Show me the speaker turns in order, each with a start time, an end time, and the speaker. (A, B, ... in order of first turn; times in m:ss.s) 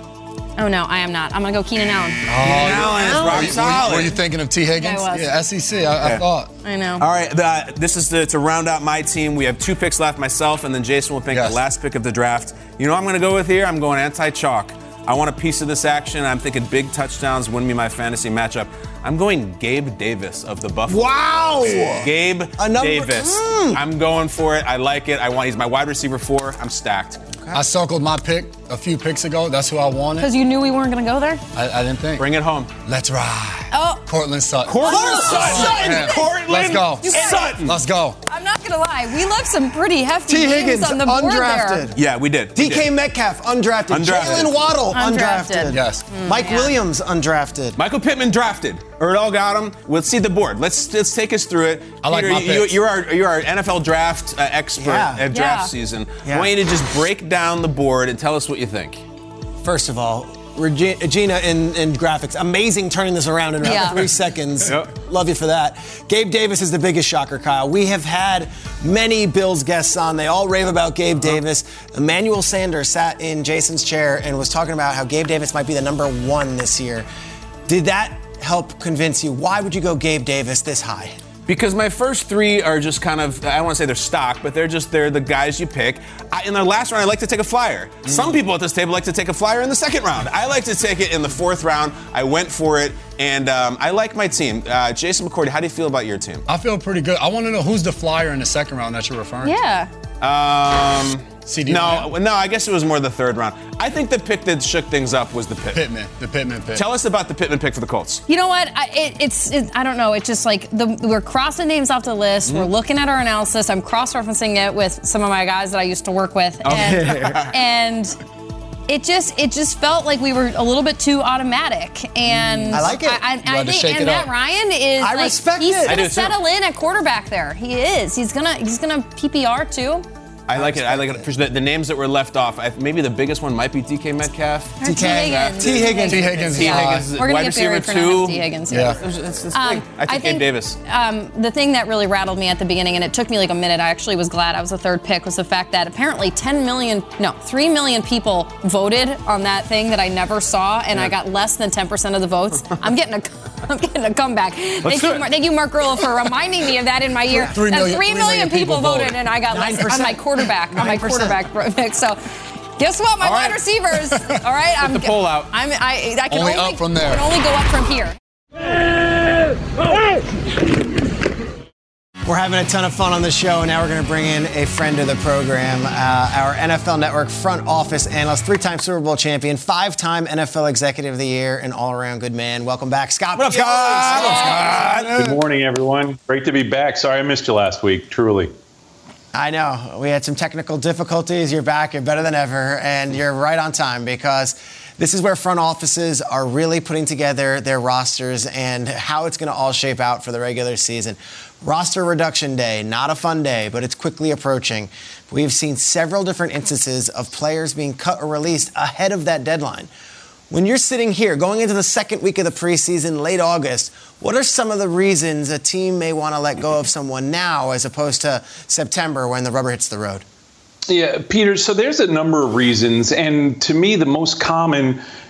0:00.6-0:02.2 A
0:02.3-0:06.5 B
0:02.4-0:04.2 C
0:02.8-0:03.2 A
0:03.0-0:03.6 D
0:04.7-0:05.3 A
0:06.6-0:07.0 A
0:07.0-0:27.2 C
0:11.3-0:11.6 B
0:20.9-0:23.8 D
0:27.5-0:30.3 B
0:30.2-0:31.4 A
0:31.5-0:32.3 B
0:32.2-0:32.7 C
0:32.8-0:38.2 B
0:33.7-0:34.0 A
0:34.6-0:37.8 C
0:34.8-0:36.3 A
0:34.9-0:36.1 D
0:37.0-0:37.6 A
0:38.3-0:41.9 A
0:40.3-0:42.0 D
0:41.9-0:42.9 C
0:42.5-0:47.8 D
0:43.9-0:44.6 C
0:44.9-0:46.7 A
0:45.7-0:46.1 B
0:47.8-0:59.0 C
0:52.0-0:52.8 B
0:54.8-0:55.2 D
0:55.3-0:55.7 A
0:56.2-0:56.5 D
0:59.6-1:17.1 D
1:03.6-1:04.0 A
1:04.6-1:04.9 C
1:17.7-1:21.2 D
1:21.5-1:36.4 C
1:36.5-1:39.6 B
1:39.4-1:39.9 A
1:40.2-1:45.9 C
1:41.4-1:42.1 B
1:45.7-1:46.8 B
1:46.8-1:48.2 C
1:48.3-1:58.2 A
1:56.6-1:57.5 C
1:56.7-1:57.4 D
1:58.9-2:10.0 A
2:02.5-2:04.3 B
2:02.7-2:03.2 D
2:05.0-2:06.0 D
2:05.8-2:06.4 C
2:10.5-2:20.8 C
2:10.6-2:11.1 D
2:14.8-2:19.0 A
2:15.0-2:16.5 D
2:15.8-2:17.1 B
2:18.7-2:19.0 B
2:19.5-2:42.2 A
2:34.8-2:35.3 C
2:37.4-2:39.2 B
2:39.5-2:41.4 D
2:42.8-2:48.2 A
2:43.2-2:43.6 C
2:44.8-2:45.5 C
2:46.3-2:47.3 B
2:52.2-3:04.8 D
3:03.3-3:05.4 C
3:04.2-3:05.0 B
3:05.1-3:08.5 E
3:09.3-3:29.9 D
3:30.5-3:40.2 D
3:40.9-3:45.0 E